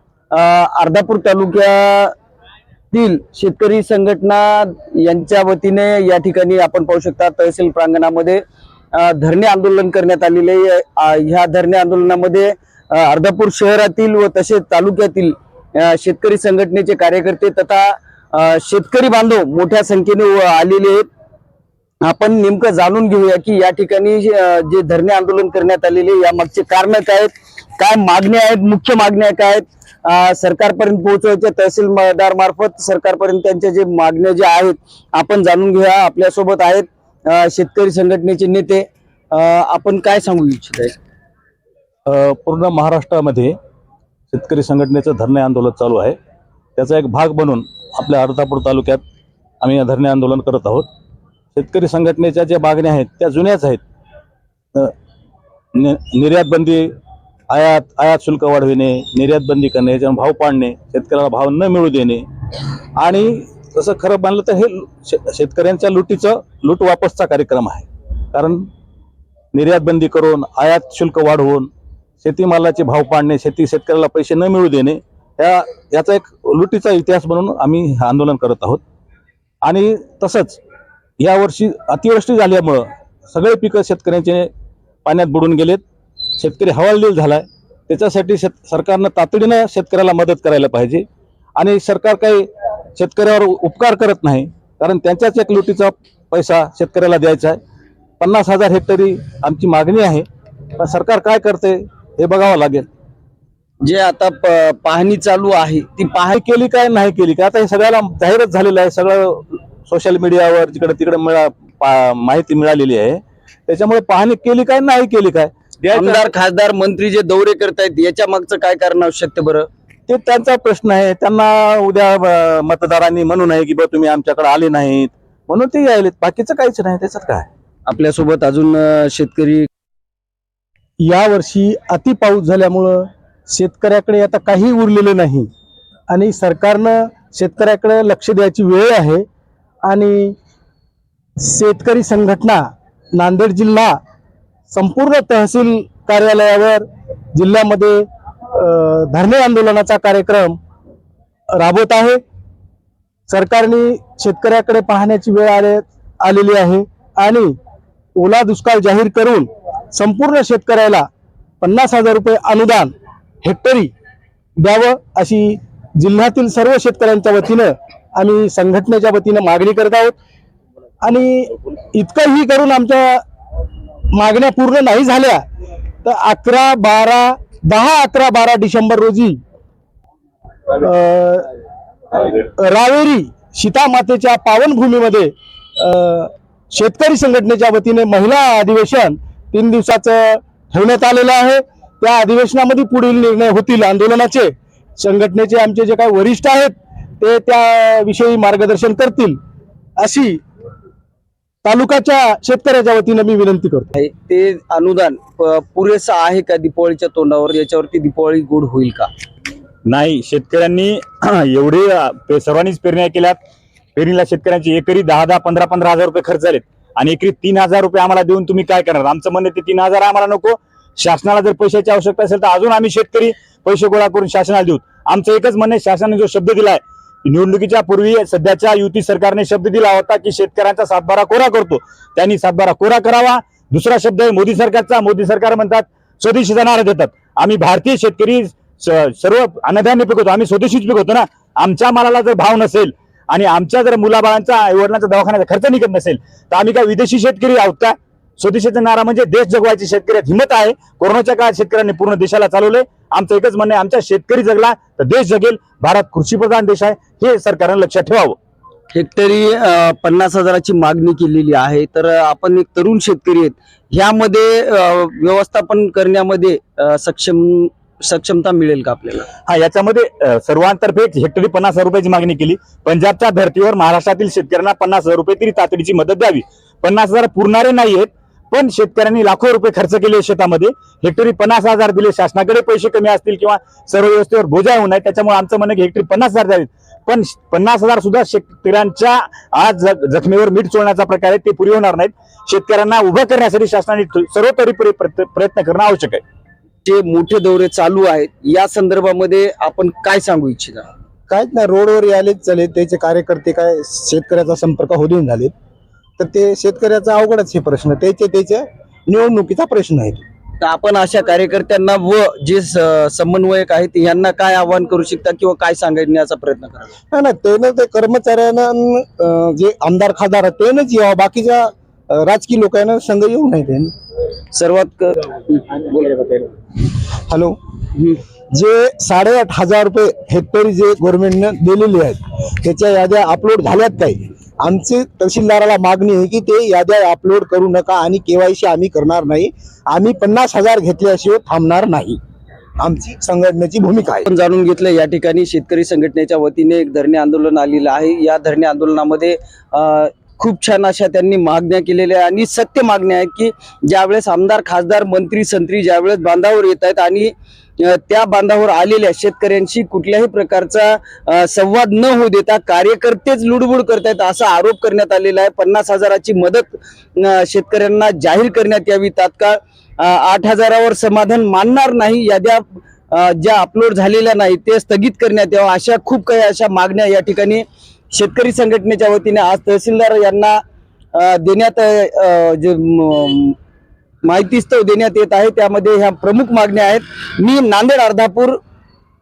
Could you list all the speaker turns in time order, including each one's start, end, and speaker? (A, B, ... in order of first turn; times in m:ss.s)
0:00.3-0:02.1 A
0:02.9-0:08.4 A
0:08.9-0:21.1 A
0:22.0-0:40.9 A
0:42.1-0:43.5 B
0:44.3-0:46.2 B
0:46.8-0:49.0 B
0:49.6-0:50.9 B
0:51.6-0:53.8 B
0:55.7-0:56.9 B
0:57.5-1:02.2 B
1:03.0-1:08.6 B
1:09.5-1:11.7 B
1:12.2-1:18.8 B
1:19.6-1:20.6 B
1:21.2-1:24.5 B
1:25.0-1:25.8 B
1:26.4-1:31.0 B
1:31.6-1:37.6 B
1:38.2-1:40.3 B
1:40.8-1:42.9 B
1:43.8-1:46.4 A
1:46.3-1:56.3 B
1:55.9-1:59.7 A
2:00.1-2:07.5 B
2:07.9-2:09.7 A
2:11.0-2:15.5 C
2:16.1-2:19.2 C
2:19.8-2:20.4 C
2:21.4-2:22.6 C
2:23.2-2:24.0 C
2:24.7-2:30.6 C
2:31.5-2:32.2 C
2:33.3-2:37.5 C
2:38.2-2:41.1 C
2:41.6-2:42.9 C
2:43.4-2:43.9 C
2:44.6-2:50.1 C
2:51.0-2:53.2 C
2:54.1-2:55.4 C
2:56.0-2:59.4 C
3:00.8-3:01.4 C
3:02.6-3:19.4 C
3:20.0-3:20.3 C
3:21.6-3:23.9 C
3:24.0-3:29.1 A
3:29.8-3:33.4 D
3:33.9-4:18.4 D
4:18.9-4:29.3 A
4:29.5-4:56.2 D
4:56.8-5:00.8 A
5:01.3-5:05.5 C
5:06.2-5:10.2 C
5:10.6-5:16.9 A
5:17.1-5:23.9 C
5:24.5-5:26.5 A
5:27.3-5:27.6 C
5:28.5-5:42.2 C
5:42.8-5:44.2 C
5:44.2-6:20.6 A
6:21.1-6:23.6 A
6:24.2-6:28.6 A